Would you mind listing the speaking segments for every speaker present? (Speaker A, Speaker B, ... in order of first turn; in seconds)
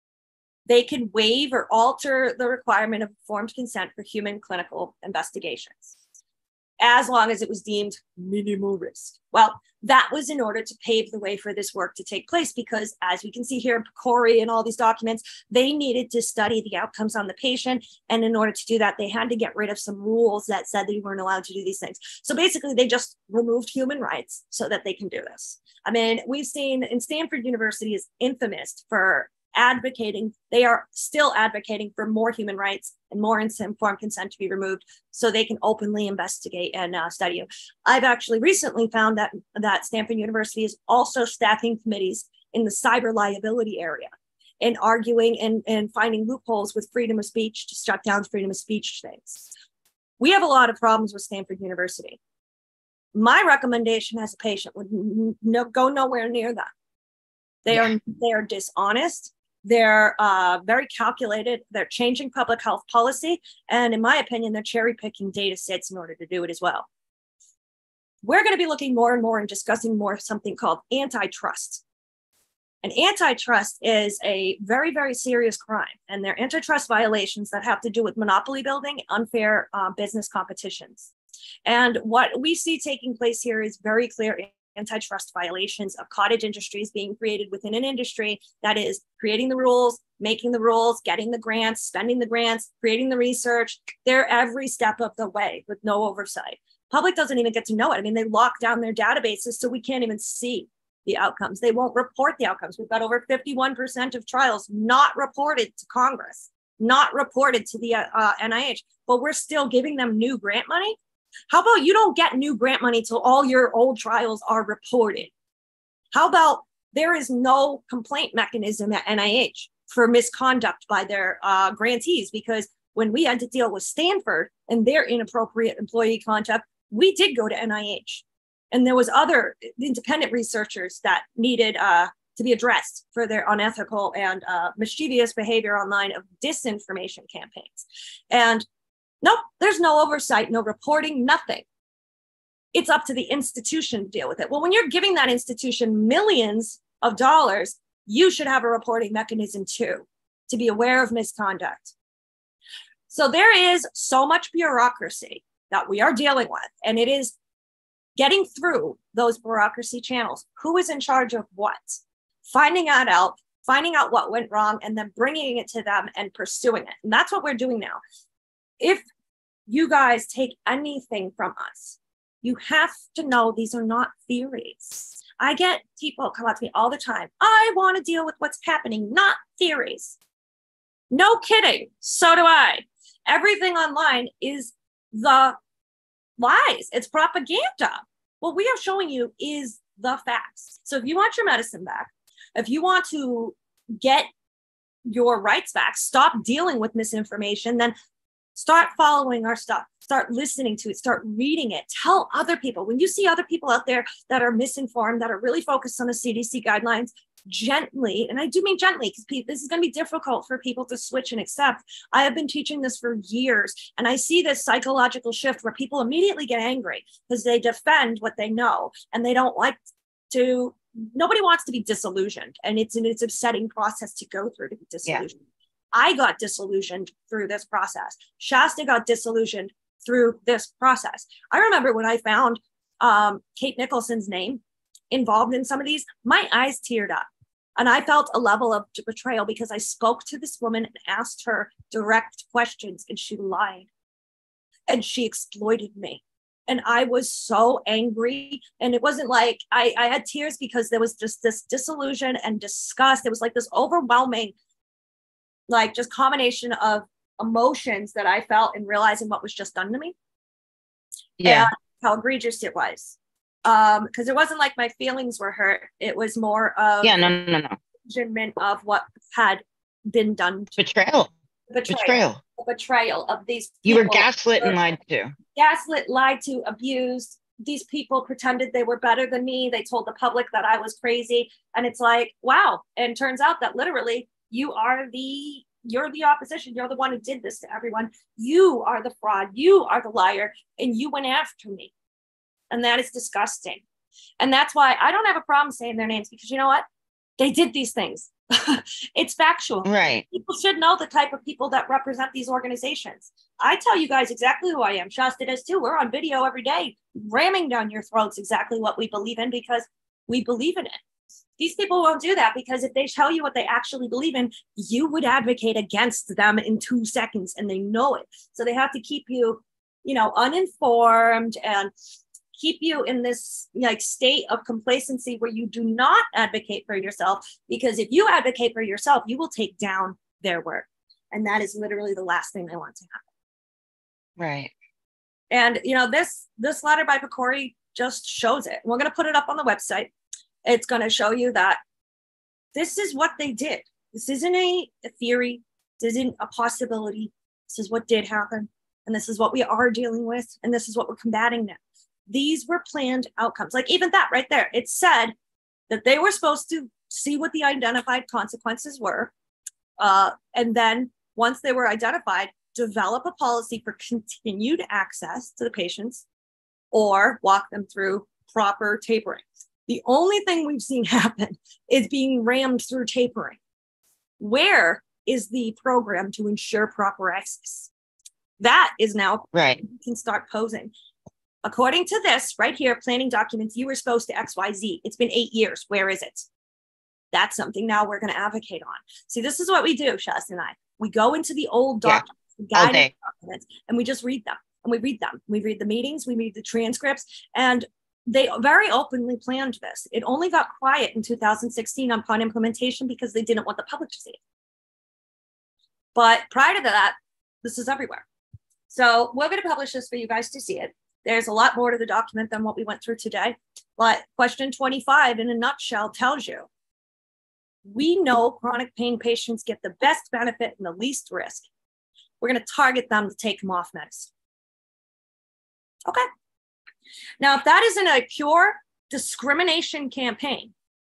Speaker A: 0.7-6.0, 6.8-49.5, 50.2-52.2, 53.1-56.7, 57.6-66.9, 68.2-71.8, 72.8-81.1, 81.7-111.0, 111.5-115.3, 116.1-138.7, 139.2-141.7, 142.7-151.9, 153.1-157.3, 158.2-168.0, 168.8-169.1, 169.7-180.2, 181.1-185.6, 186.4-194.3, 195.1-197.9, 198.6-219.8, 220.3-225.4, 225.9-237.2, 237.8-243.9, 244.9-254.6, 255.7-260.1, 261.4-267.3, 268.1-270.8, 271.7-274.8, 275.6-291.9, 292.7-293.8, 294.4-296.9, 297.4-311.0, 311.6-321.9, 322.6-333.2, 335.5-340.1, 340.6-341.8, 342.8-355.4, 355.9-359.3, 360.0-366.2, 366.9-373.6, 374.4-377.9, 378.6-380.9, 381.6-386.5, 387.3-404.4, 406.1-408.2, 408.9-416.7, 417.9-421.7, 422.4-424.3, 427.4-430.7
Speaker B: 261.4-261.7, 267.0-267.8, 270.8-271.3, 271.9-272.4, 273.9-275.3, 299.9-300.2, 334.4-334.7, 379.5-379.8, 392.7-393.1